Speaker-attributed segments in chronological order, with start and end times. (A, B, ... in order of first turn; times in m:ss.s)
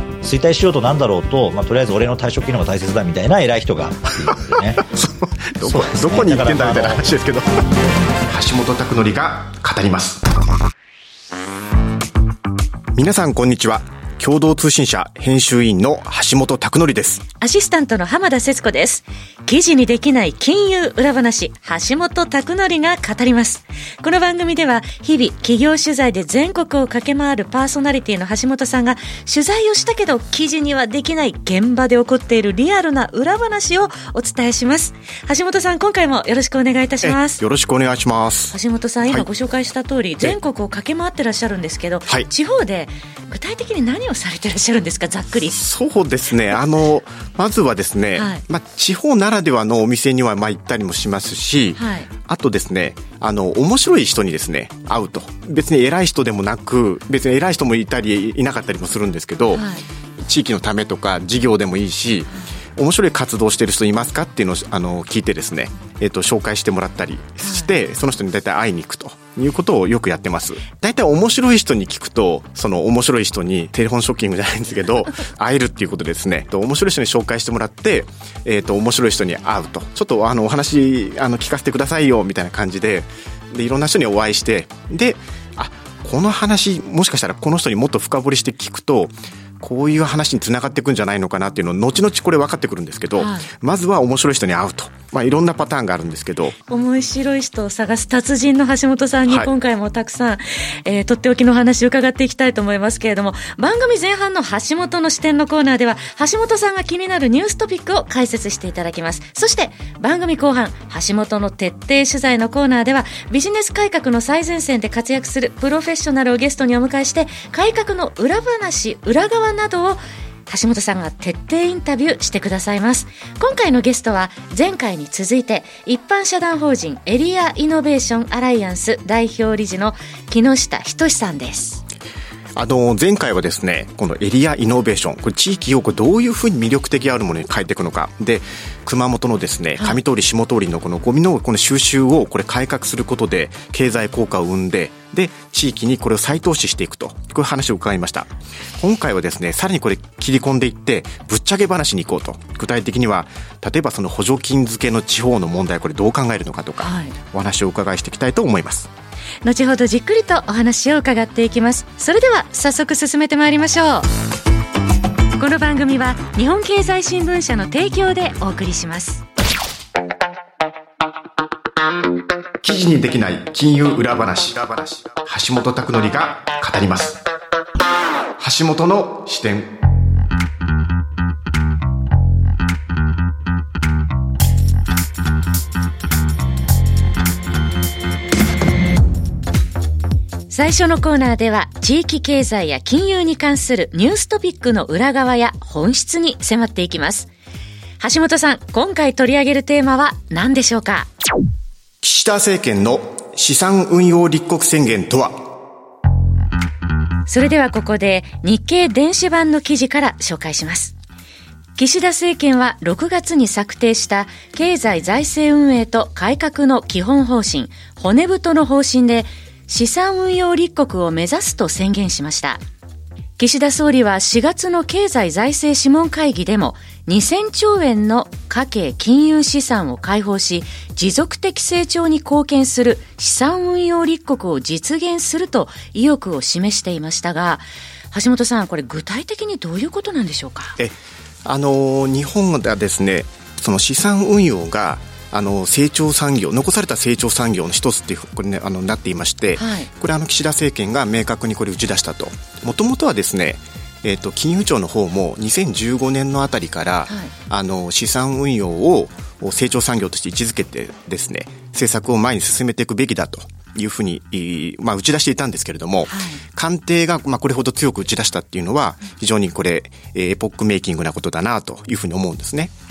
0:00.2-0:04.8 A
0:04.8-0:07.7 B
0:05.6-0:07.0 A
0:08.2-0:10.2 B
0:12.9-0:17.2 B
0:17.4-0:37.4 C
0:37.0-0:39.3 B
0:38.5-0:45.6 C
0:45.5-0:59.6 B
0:48.1-0:48.4 C
0:51.8-0:52.1 C
0:59.5-0:59.8 C
1:00.2-1:36.6 B
1:07.4-1:07.7 C
1:33.2-1:33.5 C
1:36.7-2:11.8 C
2:12.6-2:38.9 B
2:36.8-2:37.1 C
2:39.4-2:44.1 C
2:45.4-2:49.2 C
2:52.6-2:57.2 B
2:58.4-2:59.7 B
3:10.5-3:17.3 C
3:18.0-3:21.1 C
3:22.0-3:25.4 B
3:27.3-3:30.9 C
3:31.8-3:42.6 C
3:43.4-4:00.8 C
4:00.8-4:32.7 B
4:09.6-4:09.9 C
4:26.1-4:26.4 C